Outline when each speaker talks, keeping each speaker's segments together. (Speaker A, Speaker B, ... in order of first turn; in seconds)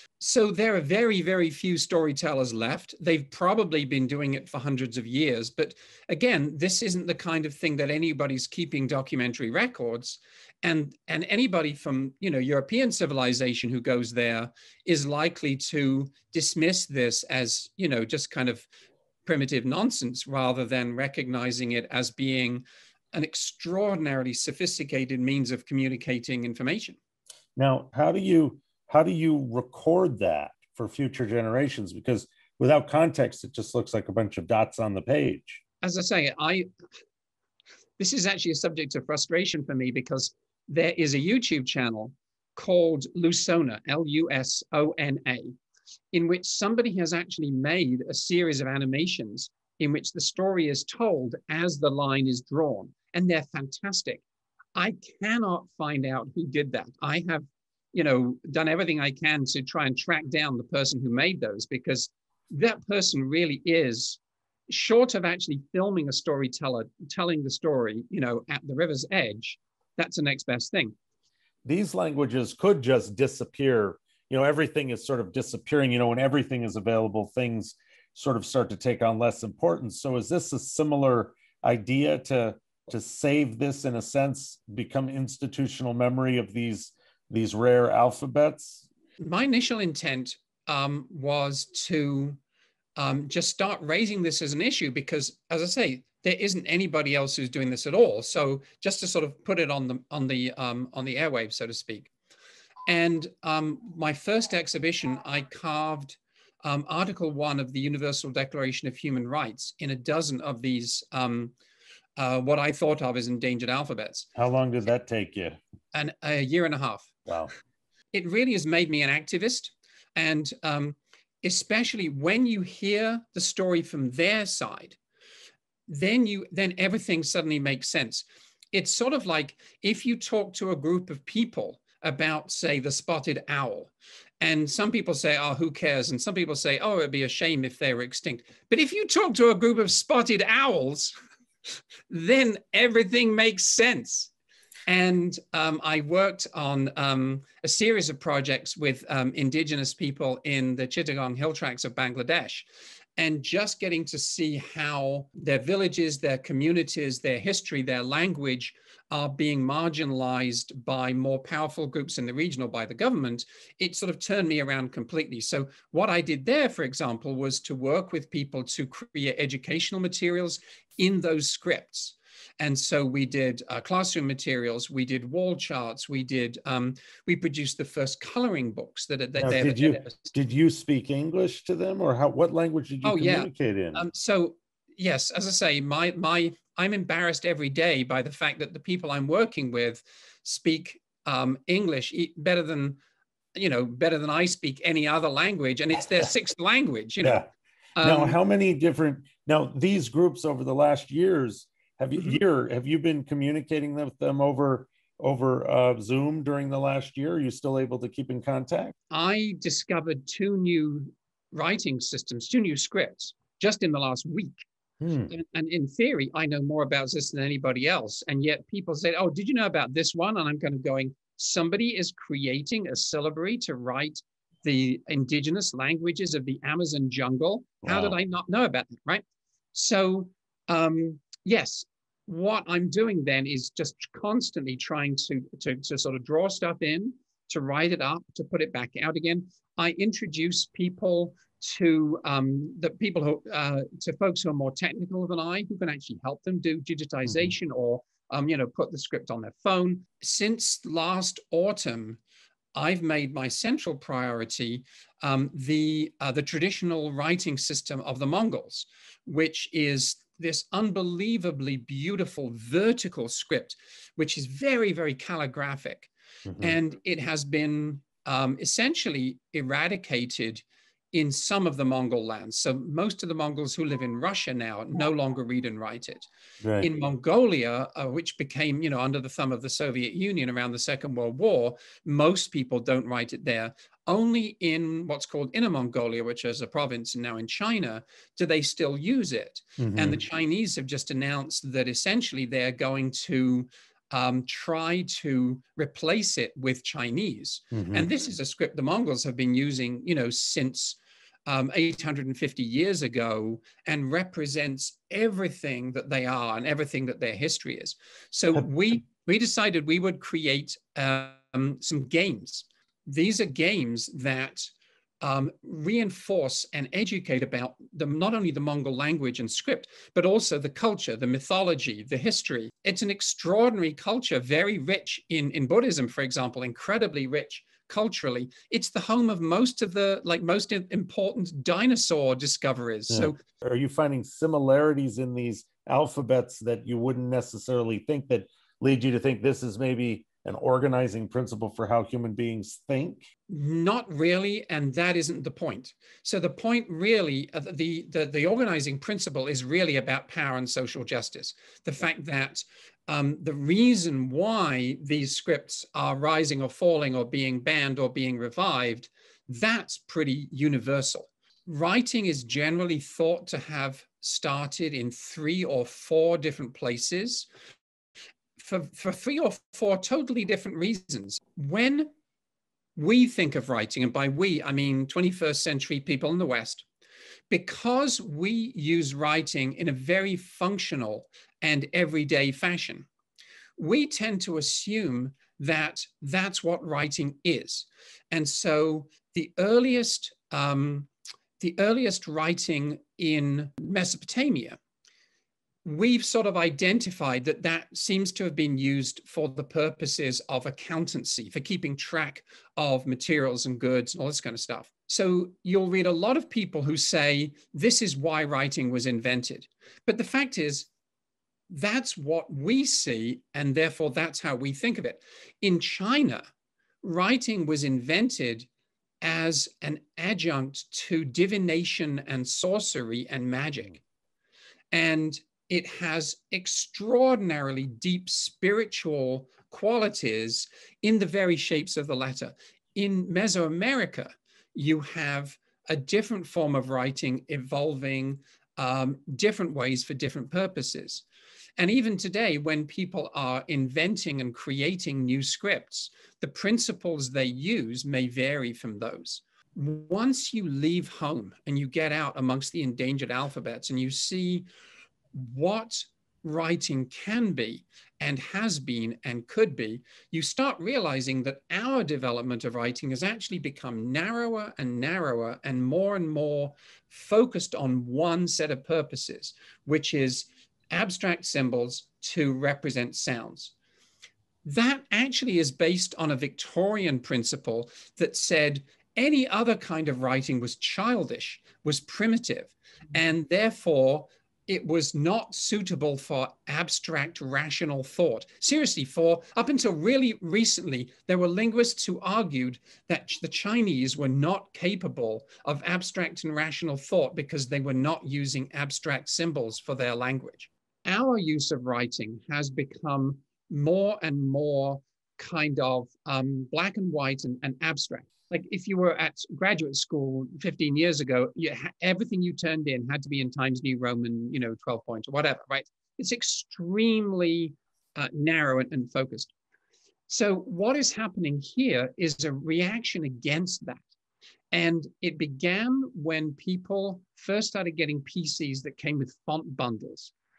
Speaker A: 0.2-18.7, 19.2-27.0, 35.8-36.7, 38.0-45.5, 46.1-54.2, 54.8-70.9, 89.2-92.4, 93.0-102.1, 102.9-111.5, 112.2-114.3, 115.9-117.1, 118.1-125.0, 125.9-141.1, 142.1-144.3, 144.9-152.7, 153.2-180.3, 183.0-193.0, 193.5-197.4, 198.0-198.4, 209.1-214.5, 215.3-229.2, 229.7-252.2, 252.7-276.2, 276.8-333.4, 343.5-367.5, 368.6-372.1, 372.9-376.9, 377.5-383.1, 383.8-394.8, 395.8-410.9, 411.7-416.5, 417.0-418.7, 419.2-424.0, 424.9-441.2, 441.8-454.6, 455.3-473.7, 474.6-519.5, 520.3-524.0, 524.7-530.3
Speaker B: 27.6-35.6, 71.6-88.8, 114.3-115.6, 179.4-184.1, 197.2-197.5, 198.0-208.9, 215.0-215.3, 227.8-228.2, 247.2-247.5, 266.4-266.8, 276.6-276.9, 289.8-290.2, 297.7-298.1, 333.1-343.3